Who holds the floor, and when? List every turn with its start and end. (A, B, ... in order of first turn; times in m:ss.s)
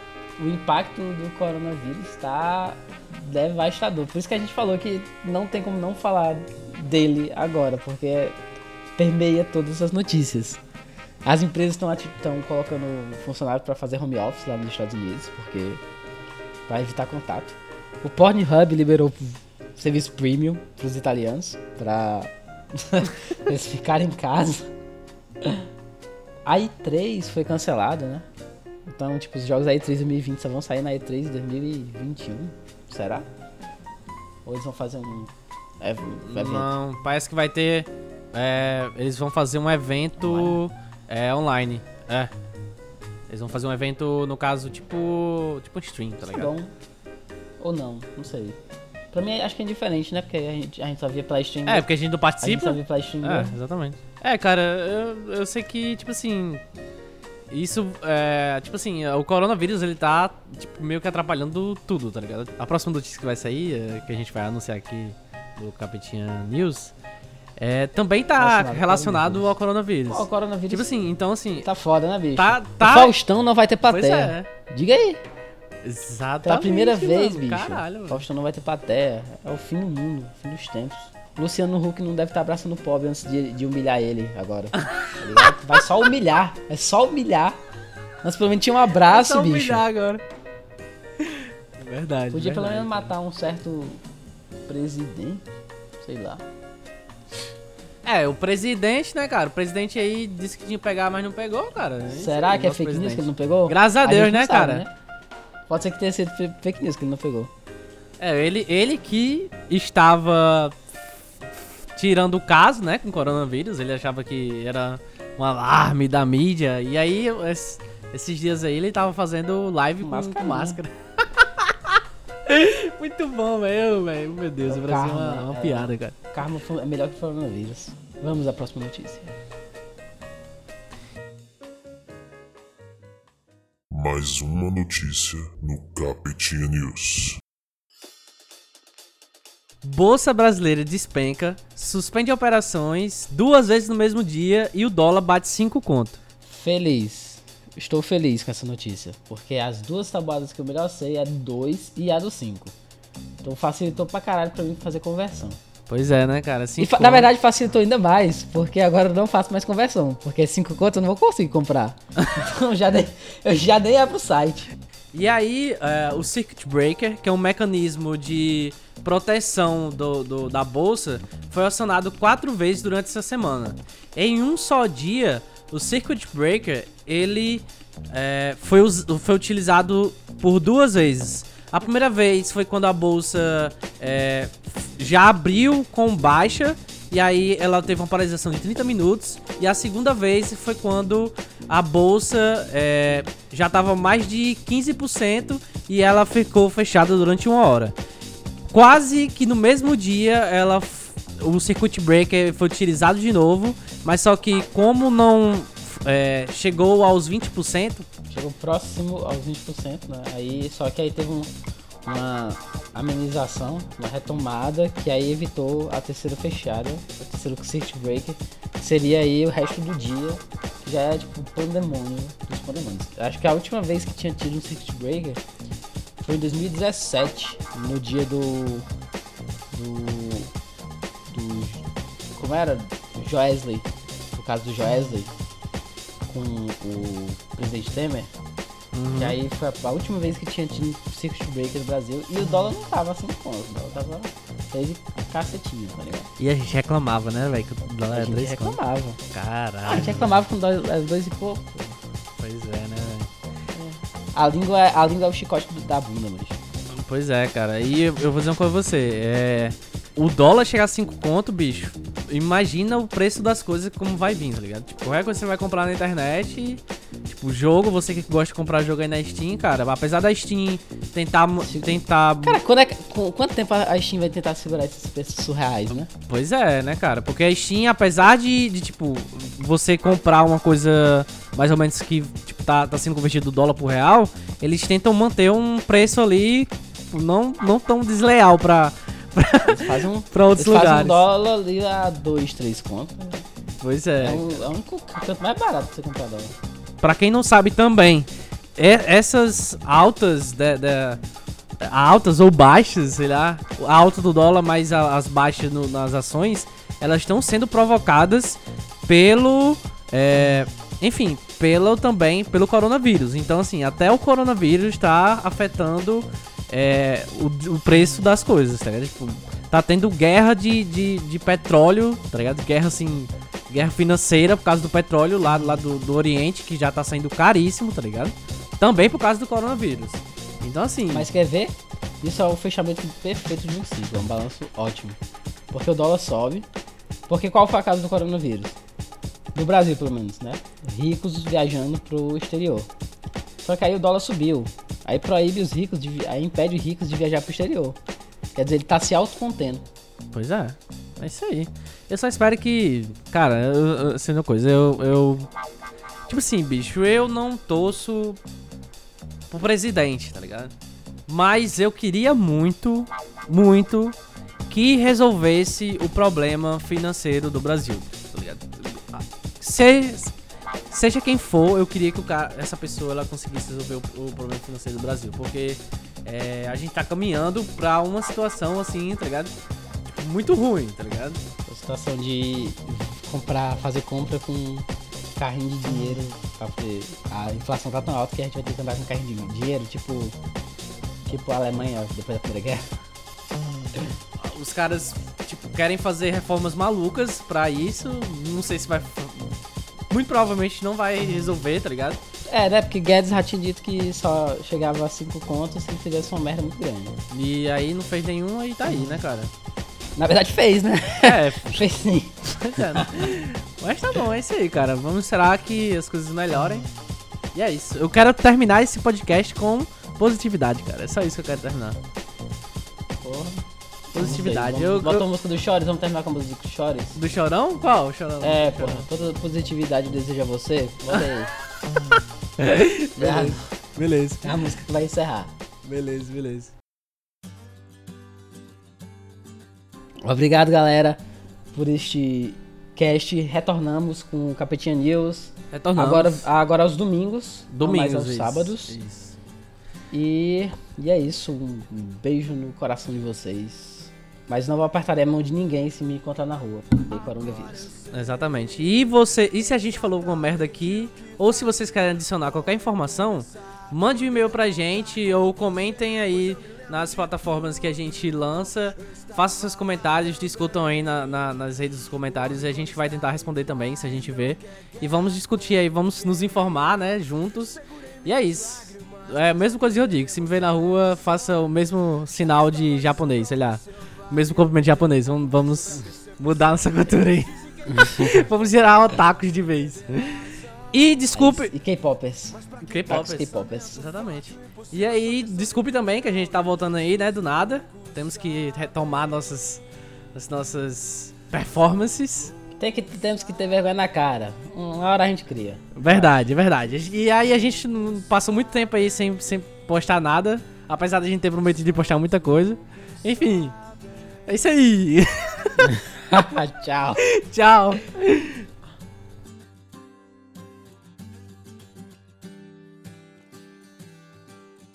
0:00.4-0:08.4 A
0:09.0-0:10.6 A
0:11.2-0:15.8 A
0:16.7-0:24.7 A
0:26.5-0:28.3 A
0:28.9-0:33.3 A
0:34.4-0:36.7 A
0:36.2-0:42.3 B
0:40.2-0:40.6 A
0:43.3-0:46.5 B
0:46.2-0:46.7 A
0:47.6-0:48.6 A
0:49.1-0:51.9 A
0:51.6-0:56.6 B
0:52.4-0:53.5 A
0:57.5-1:06.9 B
1:07.6-1:11.7 B
1:08.4-1:09.5 A
1:10.1-1:10.9 A
1:11.6-1:15.2 A
1:12.4-1:13.2 B
1:13.8-1:14.5 B
1:15.8-1:18.2 B
1:16.4-1:27.6 A
1:28.2-1:29.8 A
1:29.0-1:30.2 B
1:31.2-1:33.1 B
1:32.3-1:34.0 A
1:34.7-1:35.4 A
1:36.0-1:36.4 A
1:38.0-1:44.8 B
1:42.1-1:44.9 A
1:45.7-1:47.5 A
1:48.2-2:06.2 B
2:00.0-2:00.8 A
2:04.7-2:09.3 A
2:13.9-2:17.4 C
2:19.8-2:26.2 B
2:26.4-2:32.7 A
2:33.4-2:35.6 A
2:35.9-2:37.3 B
2:36.8-2:44.7 A
2:45.1-3:18.0 B
3:18.7-3:28.1 B
3:28.3-3:31.5 A
3:32.0-3:45.4 A
3:46.2-3:48.9 A
3:49.7-3:50.5 A
3:51.3-3:55.3 A
3:56.3-3:58.3 A
3:58.9-3:59.4 B
3:59.1-4:06.3 A
4:06.4-4:08.8 B
4:08.1-4:09.2 A
4:09.3-4:10.4 B
4:09.8-4:12.0 A
4:12.4-4:13.3 B
4:13.7-4:16.6 A
4:16.9-4:32.6 B
4:31.6-4:36.1 A
4:36.3-4:51.2 B
4:49.6-4:53.4 A
4:53.8-4:54.6 B
4:54.2-4:56.6 A
4:57.0-5:01.2 B
5:01.8-5:31.3 B
5:31.1-5:35.2 A
5:35.7-5:36.6 A
5:37.3-5:38.8 A
5:39.5-5:42.9 A
5:43.6-5:48.0 A
5:48.5-5:49.8 A
5:50.3-5:55.5 B
5:56.3-5:58.4 B
5:59.5-6:00.7 B
6:01.3-6:04.2 B
6:04.7-6:10.3 B
6:10.9-6:19.5 B
6:20.0-6:21.4 B
6:21.7-6:30.4 A
6:31.3-6:32.8 A
6:34.4-6:39.6 B
6:40.1-6:42.2 B
6:42.5-6:47.2 A
6:47.3-6:49.5 B
6:50.2-6:53.3 A
6:51.2-6:51.8 B
6:52.5-6:56.9 B
6:57.5-7:02.0 B
7:03.2-7:03.6 A
7:04.1-7:05.3 B
7:04.1-7:07.2 A
7:07.2-7:09.1 B
7:08.4-7:11.5 A
7:12.6-7:14.5 B
7:13.2-7:13.6 A
7:14.4-7:15.5 A
7:15.8-7:16.7 B
7:20.2-7:21.2 A
7:21.7-7:29.0 A
7:25.7-7:26.5 B
7:27.7-7:29.4 B
7:30.1-7:37.9 A
7:38.1-8:11.7 B
8:07.9-8:08.3 A
8:11.3-8:14.0 A
8:12.8-8:19.8 B
8:20.3-8:22.5 B
8:22.8-8:26.3 A
8:25.9-8:33.8 B
8:34.4-8:35.9 B
8:35.8-8:37.2 A
8:37.2-8:38.6 B